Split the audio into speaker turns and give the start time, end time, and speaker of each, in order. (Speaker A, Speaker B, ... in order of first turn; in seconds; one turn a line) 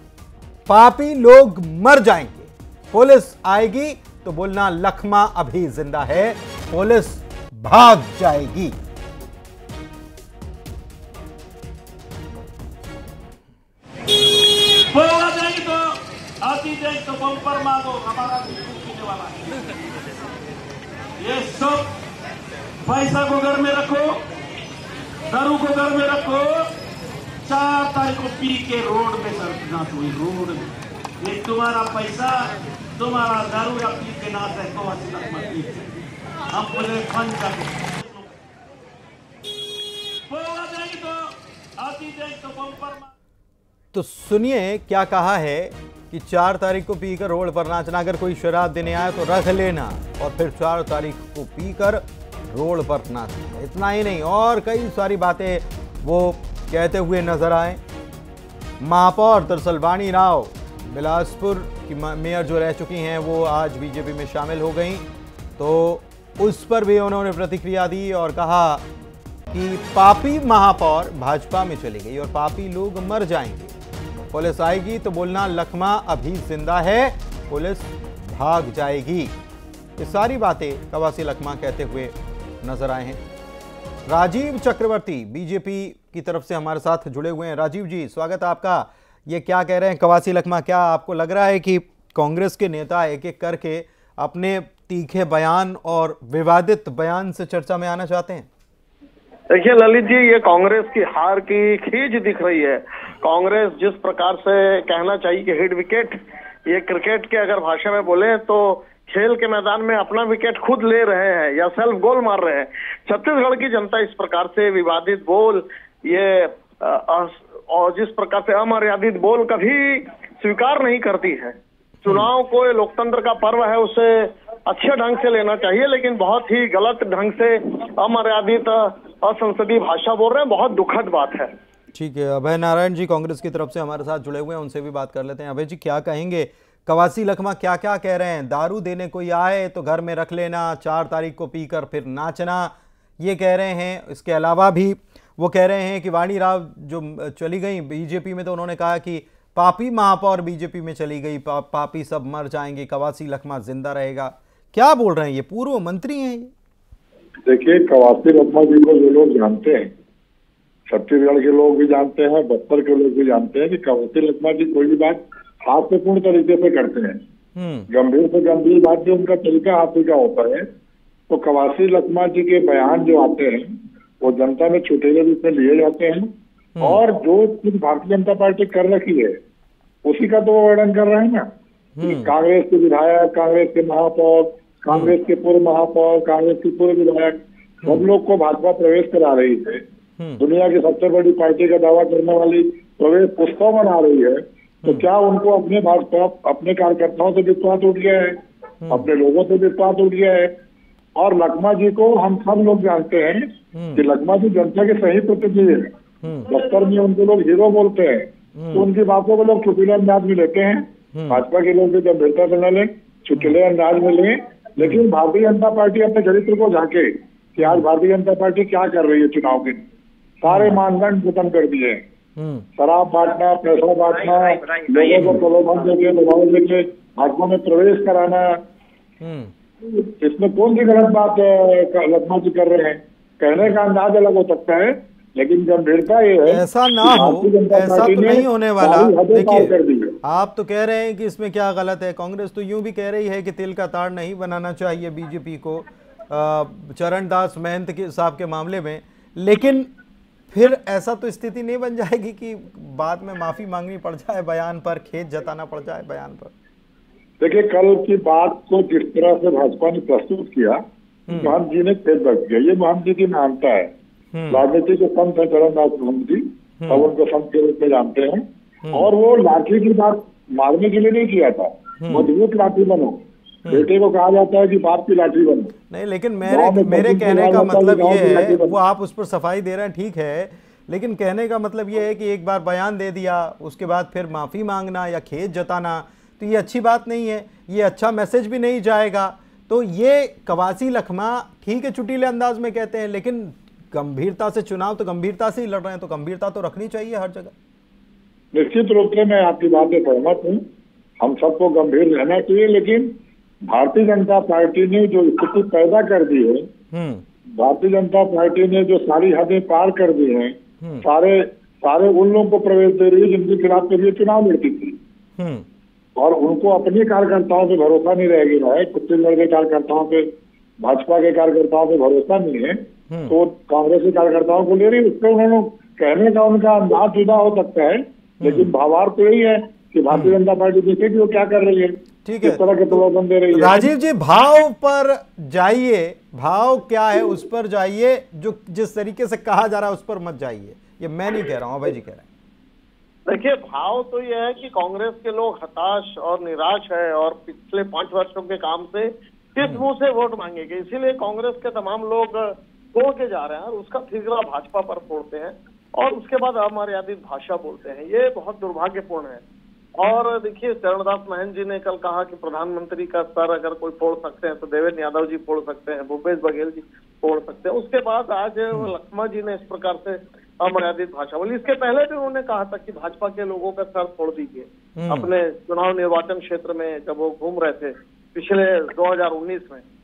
Speaker A: 0.7-8.8
Speaker B: 14.9-19.9
Speaker B: 21.2-21.9
Speaker B: 22.8-24.2
Speaker B: 25.3-26.7
Speaker B: 27.4-35.9
Speaker B: 36.5-38.3
Speaker B: 40.3-43.1
Speaker A: 43.9-57.8
Speaker A: 58.8-65.0
Speaker A: 65.6-68.8
Speaker A: 69.5-73.7
Speaker A: 74.3-79.3
Speaker A: 80.0-83.2
Speaker A: 84.1-98.5
Speaker C: 99.5-106.1
Speaker C: 106.7-131.5
Speaker A: 131.9-156.5
Speaker D: 157.4-159.9
Speaker D: 160.9-167.1
Speaker A: 167.6-167.9
Speaker D: 167.9-170.6
Speaker D: 171.3-173.7
Speaker D: 174.2-176.3
Speaker D: 176.8-179.3
Speaker D: 180.0-181.4
Speaker A: 182.0-182.3
Speaker D: 182.0-189.8
Speaker A: 184.9-185.1
Speaker D: 190.4-198.3
Speaker D: 198.9-200.5
Speaker D: 201.2-203.4
Speaker A: 203.7-204.0
Speaker D: 203.9-205.9
Speaker A: 206.2-206.5
Speaker D: 206.5-208.2
Speaker A: 208.6-208.9
Speaker D: 208.7-219.8
Speaker A: 211.1-211.4
Speaker A: 214.8-215.0
Speaker A: 217.6-217.8
Speaker D: 220.4-222.0
Speaker A: 220.4-220.8
Speaker A: 222.4-222.7
Speaker D: 222.8-228.4
Speaker C: 224.1-225.8
Speaker A: 229.2-229.5
Speaker D: 229.8-240.1
Speaker A: 236.4-239.7
Speaker A: 240.2-249.9
Speaker A: 250.5-256.5
Speaker D: 257.4-260.8
Speaker A: 261.3-261.6
Speaker D: 261.3-263.9
Speaker A: 264.3-264.6
Speaker D: 264.5-268.4
Speaker A: 266.8-267.1
Speaker D: 268.9-273.2
Speaker A: 272.0-272.3
Speaker D: 273.7-275.7
Speaker A: 275.9-297.5
Speaker D: 276.5-278.8
Speaker D: 298.5-300.6
Speaker D: 301.2-303.1
Speaker D: 303.6-306.6
Speaker A: 306.9-307.2
Speaker D: 307.6-315.0
Speaker A: 315.4-315.6
Speaker D: 316.2-320.2
Speaker D: 320.8-322.7
Speaker A: 323.1-323.4
Speaker D: 323.3-333.9
Speaker A: 328.4-328.7
Speaker A: 330.1-330.4
Speaker A: 332.2-333.0
Speaker A: 333.5-342.3
Speaker C: 343.3-359.4
Speaker C: 360.0-379.8
Speaker A: 375.0-375.3